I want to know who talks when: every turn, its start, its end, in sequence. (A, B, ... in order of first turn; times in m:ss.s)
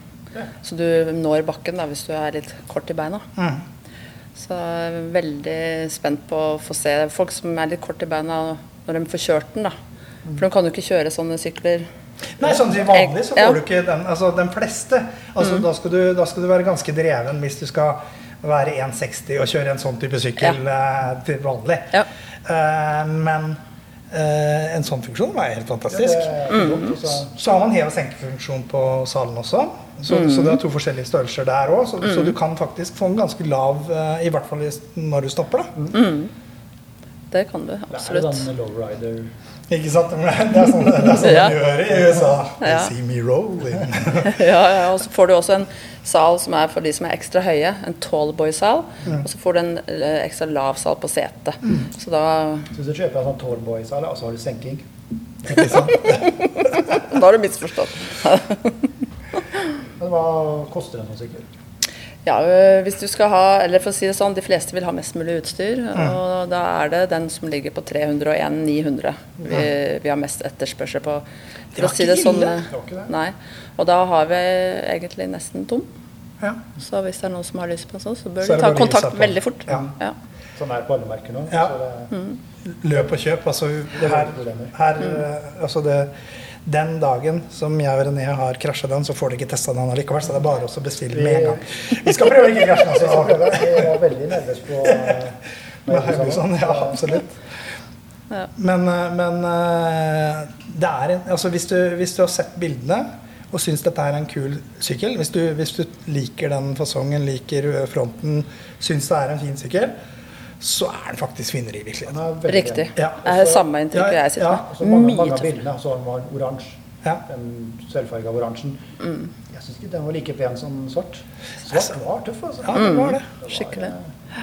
0:00.6-0:03.2 A
0:03.4-0:03.6 B
0:04.4-0:09.8 A
0:10.4-0:11.9 A
0:12.4-0:23.6 B
0:12.8-0:13.6 A
0:24.1-0:26.4 B
0:25.9-0:27.4 C
0:26.5-0:26.9 A
0:27.3-0:35.8 B
0:30.1-0:30.6 A
0:35.9-0:36.3 A
0:37.3-0:38.5 A
0:37.9-0:39.3 C
0:39.7-0:44.3 B
0:41.1-0:41.6 A
0:42.6-0:42.9 A
0:44.1-0:52.7 A
0:52.7-0:54.8 C
0:55.5-0:56.2 B
0:55.7-0:58.8 A
1:00.0-1:01.5 C
1:02.2-1:11.2 A
1:11.7-1:12.6 B
1:11.8-1:15.9 A
1:12.5-1:13.1 C
1:16.8-1:20.1 A
1:18.4-1:19.9 B
1:20.6-1:22.1 C
1:22.1-1:22.4 A
1:22.6-1:26.1 B
1:24.0-1:24.8 C
1:26.6-1:33.9 B
1:31.1-1:31.8 C
1:32.9-1:37.2 C
1:34.8-1:35.2 B
1:35.9-1:37.3 B
1:38.6-1:49.9 B
1:50.6-1:52.2 B
1:52.1-1:53.6 C
1:52.5-1:55.6 A
1:53.0-1:53.4 B
1:53.9-1:54.6 B
1:54.7-1:58.8 C
1:59.0-1:59.3 A
1:59.5-2:04.1 C
2:02.6-2:03.3 B
2:02.7-2:03.9 A